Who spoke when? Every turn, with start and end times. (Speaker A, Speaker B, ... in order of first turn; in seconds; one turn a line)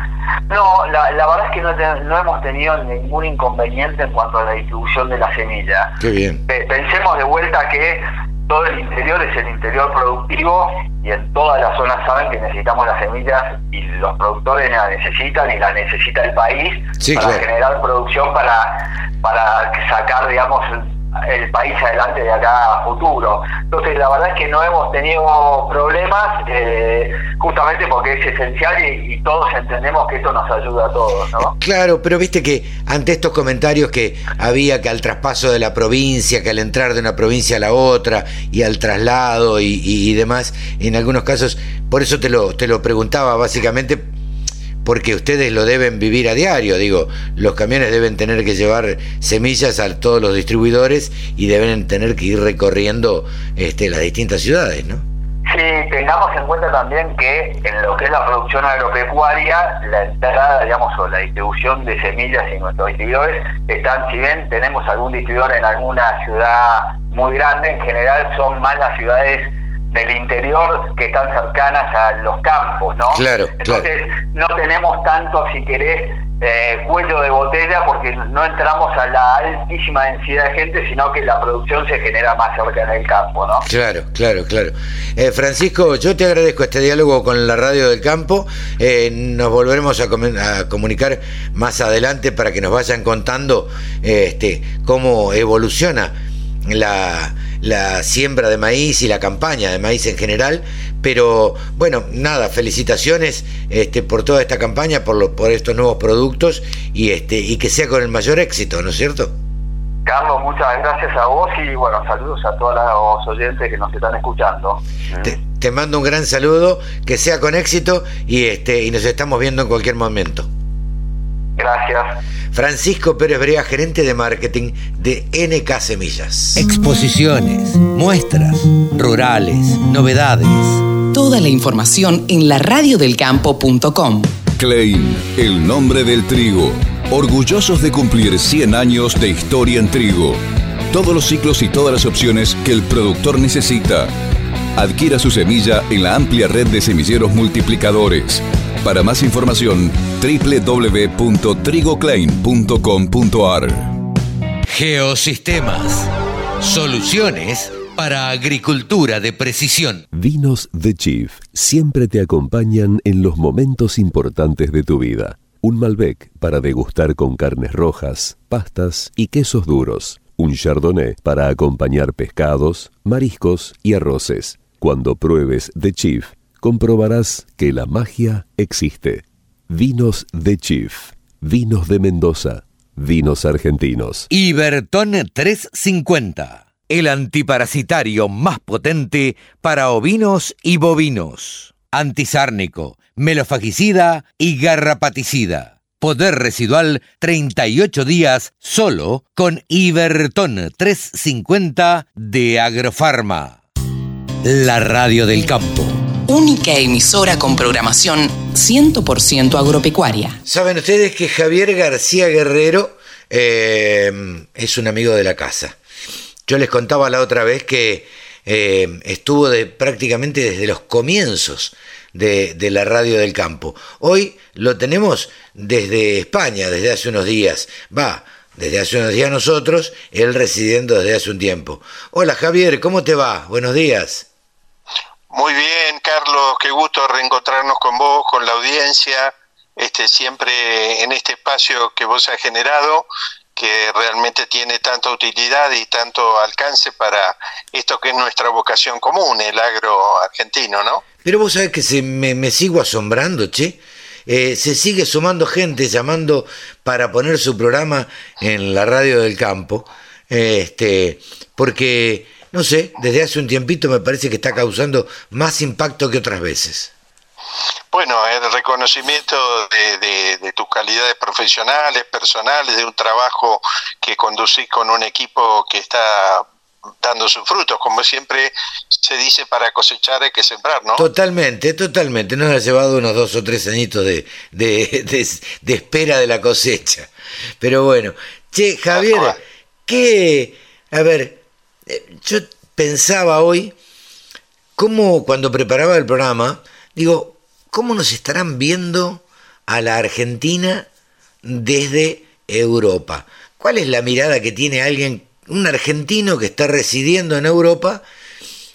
Speaker A: 0.5-6.0
Speaker B: 6.0-6.4
Speaker A: 6.5-31.5
Speaker B: 17.0-17.4
Speaker B: 31.5-44.1
Speaker B: 44.8-55.0
Speaker A: 55.5-83.7
Speaker B: 73.1-73.9
Speaker B: 83.6-96.2
Speaker B: 96.7-109.3
Speaker A: 110.1-115.2
Speaker B: 115.2-120.5
Speaker A: 121.6-122.2
Speaker B: 122.5-130.8
Speaker C: 131.1-134.3
Speaker D: 134.6-144.1
Speaker D: 144.8-153.9
Speaker B: 154.7-160.1
Speaker E: 160.1-184.3
Speaker B: 184.3-203.6
Speaker B: 204.4-206.0
Speaker C: 206.3-210.4
Speaker B: 210.5-215.8
Speaker B: 216.5-234.3
Speaker F: 235.3-251.0
Speaker B: 251.2-266.9
Speaker F: 267.9-276.5
Speaker F: 277.0-281.1
Speaker B: 281.0-293.8
Speaker F: 288.9-289.3
Speaker B: 294.8-300.9
Speaker B: 301.4-308.0